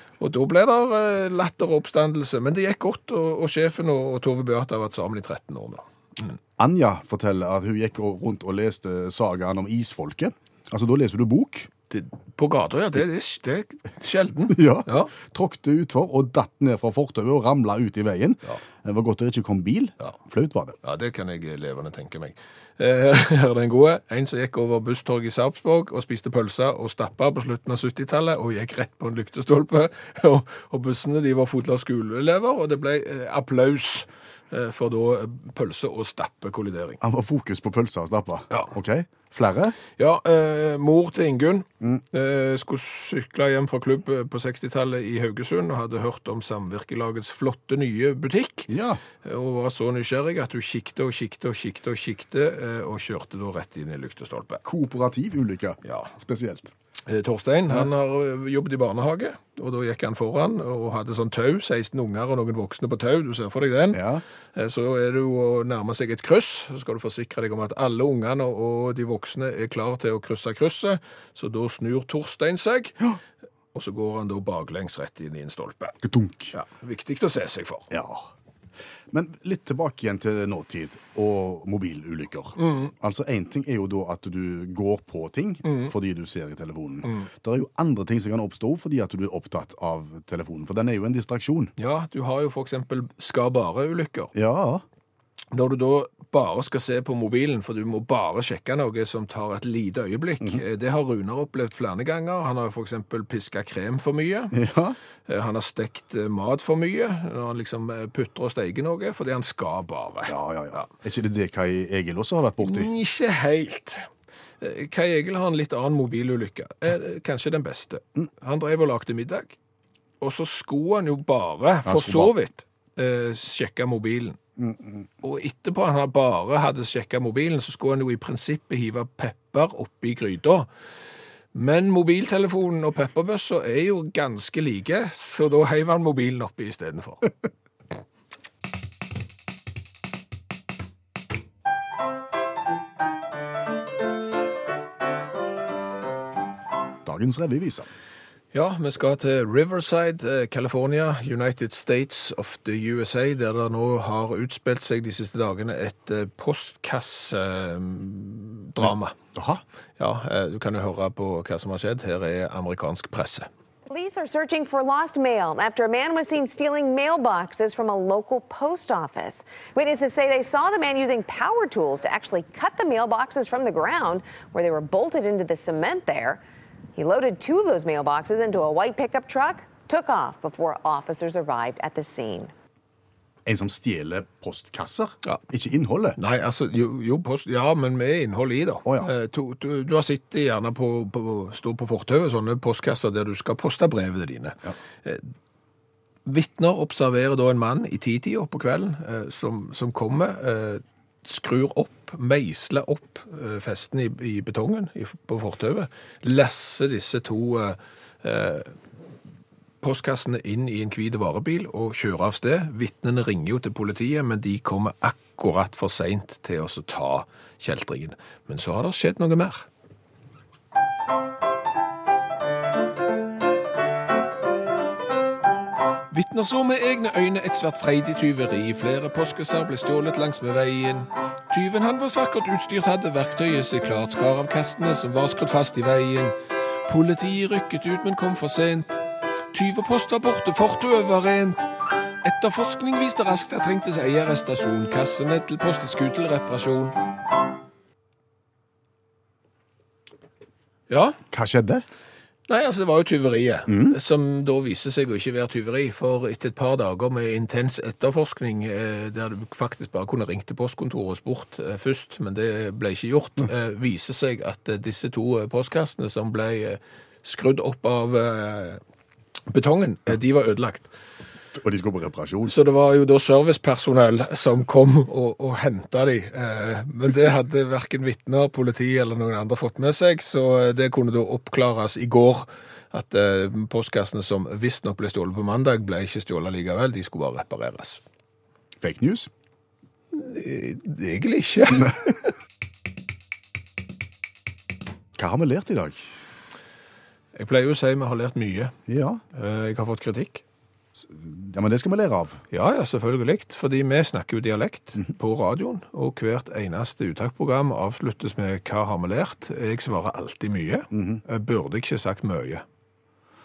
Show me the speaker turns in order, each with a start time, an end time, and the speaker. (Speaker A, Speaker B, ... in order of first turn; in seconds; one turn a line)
Speaker A: 0.2-6.4
Speaker B: 6.6-11.7
Speaker A: 11.9-15.1
Speaker B: 14.5-20.8
Speaker A: 20.8-37.0
Speaker B: 37.0-39.8
Speaker A: 40.0-48.7
Speaker B: 48.7-49.0
Speaker A: 49.2-54.6
Speaker B: 54.6-56.7
Speaker A: 55.8-56.1
Speaker A: 57.1-64.0
Speaker B: 63.9-64.2
Speaker A: 64.5-73.1
Speaker A: 73.7-76.0
Speaker B: 76.0-76.5
Speaker A: 76.5-77.9
Speaker B: 77.9-78.3
Speaker B: 79.1-91.7
Speaker A: 82.6-82.9
Speaker A: 85.7-85.9
Speaker A: 91.8-94.3
Speaker B: 94.3-94.8
Speaker A: 95.5-104.6
Speaker B: 104.5-105.0
Speaker A: 105.3-110.9
Speaker B: 110.3-112.9
Speaker A: 112.6-114.1
Speaker A: 114.6-119.6
Speaker A: 120.2-124.4
Speaker B: 121.9-122.3
Speaker B: 124.6-125.1
Speaker A: 125.2-130.7
Speaker A: 131.5-137.3
Speaker B: 147.0-147.9
Speaker A: 148.5-159.2
Speaker B: 158.8-159.6
Speaker A: 160.0-163.5
Speaker C: 163.9-176.4
Speaker C: 177.0-182.5
Speaker B: 183.5-186.2
Speaker A: 186.2-195.3
Speaker A: 196.2-208.8
Speaker A: 209.8-219.7
Speaker A: 226.1-236.3
Speaker A: 236.9-239.0
Speaker A: 239.5-241.7
Speaker A: 242.2-247.0
Speaker A: 250.9-251.2
Speaker B: 251.3-251.8
Speaker A: 252.5-268.8
Speaker B: 253.7-254.0
Speaker A: 269.5-270.9
Speaker B: 271.5-272.6
Speaker A: 272.5-288.0
Speaker B: 288.8-289.3
Speaker A: 290.1-292.3
Speaker B: 295.2-296.1
Speaker A: 297.3-298.8
Speaker B: 298.9-299.2
Speaker A: 299.3-300.4
Speaker B: 300.9-302.4
Speaker A: 302.5-312.6
Speaker B: 310.9-311.2